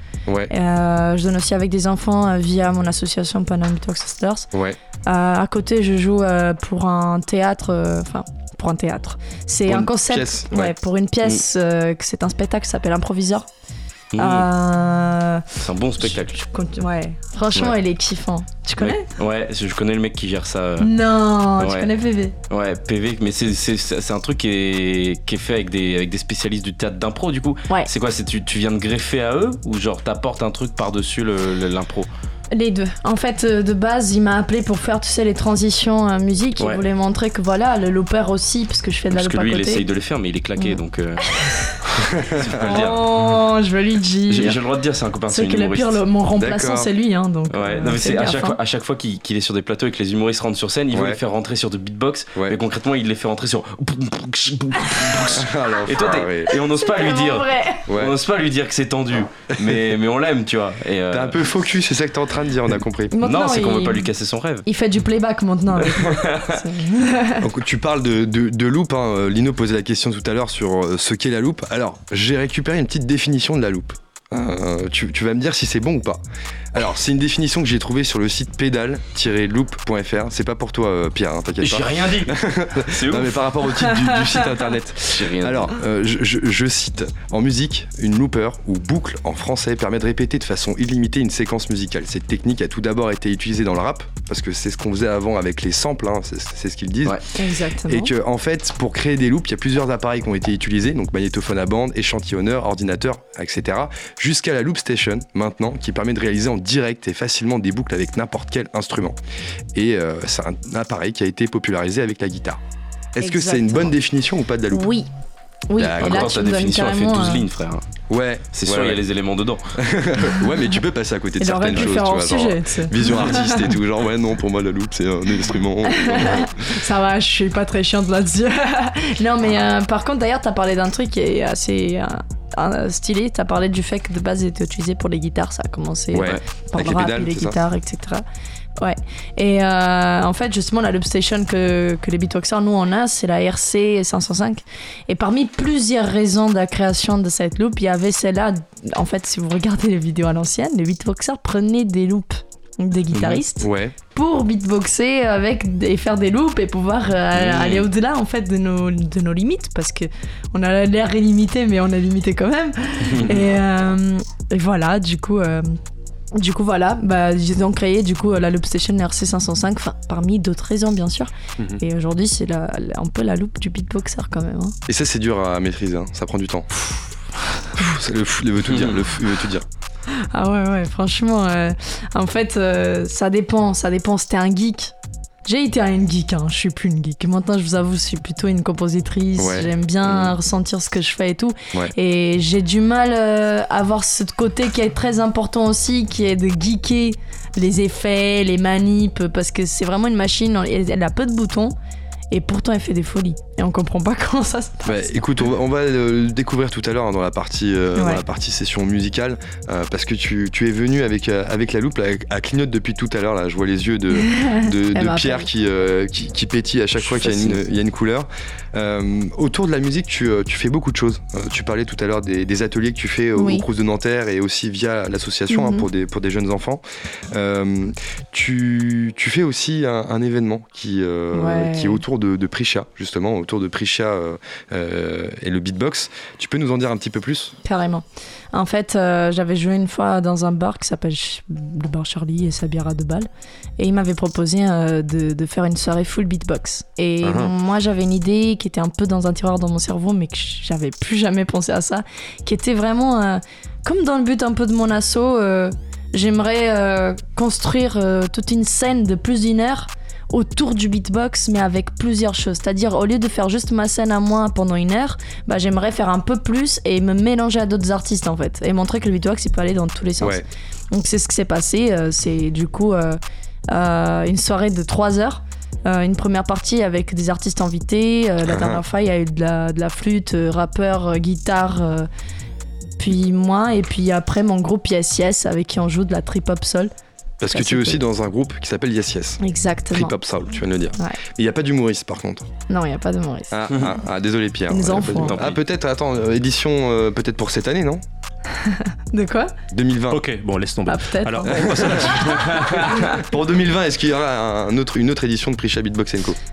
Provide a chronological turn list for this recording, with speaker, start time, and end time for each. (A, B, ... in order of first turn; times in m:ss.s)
0:00.3-0:00.5 A
0:00.5-0:04.5 B
0:04.5-0:04.8 A
0:05.1-0:13.4 B
0:09.6-0:10.7 A
0:14.1-0:14.5 C
0:14.2-0:15.4 B
0:15.6-0:16.4 C
0:16.0-0:19.0 B
0:18.8-0:20.9 C
0:20.8-0:22.3 B
0:21.6-0:21.9 C
0:22.5-0:32.1 C
0:32.5-0:39.8 B
0:39.1-0:43.0 C
0:41.3-0:41.7 B
0:42.0-0:42.7 A
0:42.6-0:44.6 B
0:44.3-0:46.0 C
0:45.3-0:48.6 B
0:46.4-0:46.9 A
0:47.5-1:01.4 C
0:50.9-0:51.2 A
0:55.2-0:56.5 A
0:56.7-0:57.9 B
0:57.9-0:58.2 A
0:59.6-0:59.9 A
1:01.1-1:03.1 A
1:03.1-1:04.1 B
1:03.2-1:04.7 C
1:04.6-1:07.4 B
1:05.8-1:06.6 C
1:07.4-1:16.2 A
1:16.7-1:37.2 A
1:21.6-1:23.4 C
1:25.1-1:25.7 C
1:37.3-1:38.1 B
1:37.8-1:49.2 A
1:49.7-1:52.6 A
1:53.1-1:54.9 A
1:53.2-1:53.9 B
1:54.7-1:55.1 B
1:55.7-1:57.4 B
1:55.8-1:56.3 A
1:56.0-1:57.8 C
1:58.1-1:59.0 A
1:58.5-2:00.3 C
1:59.8-2:06.5 A
2:01.4-2:03.6 B
2:05.9-2:18.2 B
2:16.1-2:17.6 A
2:18.8-2:45.8 B
2:33.1-2:33.4 C
2:33.6-2:33.9 A
2:37.4-2:37.8 C
2:43.1-2:43.4 C
2:46.3-2:54.8 B
2:54.9-2:56.7 A
2:57.8-2:59.6 A
2:58.7-2:59.0 C
3:00.3-3:04.9 B
3:05.4-3:21.7 B
3:09.4-3:10.3 A
3:22.3-3:25.0 B
3:24.8-3:57.5 A
3:28.0-3:28.2 B
3:34.2-3:35.5 B
3:37.2-3:37.5 B
3:43.4-3:43.6 B
3:45.5-3:45.8 B
3:51.3-3:52.0 B
3:57.6-4:33.2 B
4:33.7-4:42.1 B
4:38.4-4:38.8 A
4:43.0-4:46.9 B
4:47.4-4:49.4 A
4:47.5-4:48.0 B
4:49.4-4:50.2 B
4:49.9-4:52.5 A
4:52.7-4:53.5 B
4:53.5-4:58.0 A
4:54.7-4:55.4 B
4:55.0-4:55.6 C
4:58.6-4:59.5 B
4:59.7-5:00.2 A
5:00.1-5:02.8 D
5:00.8-5:02.8 B
5:01.5-5:06.4 A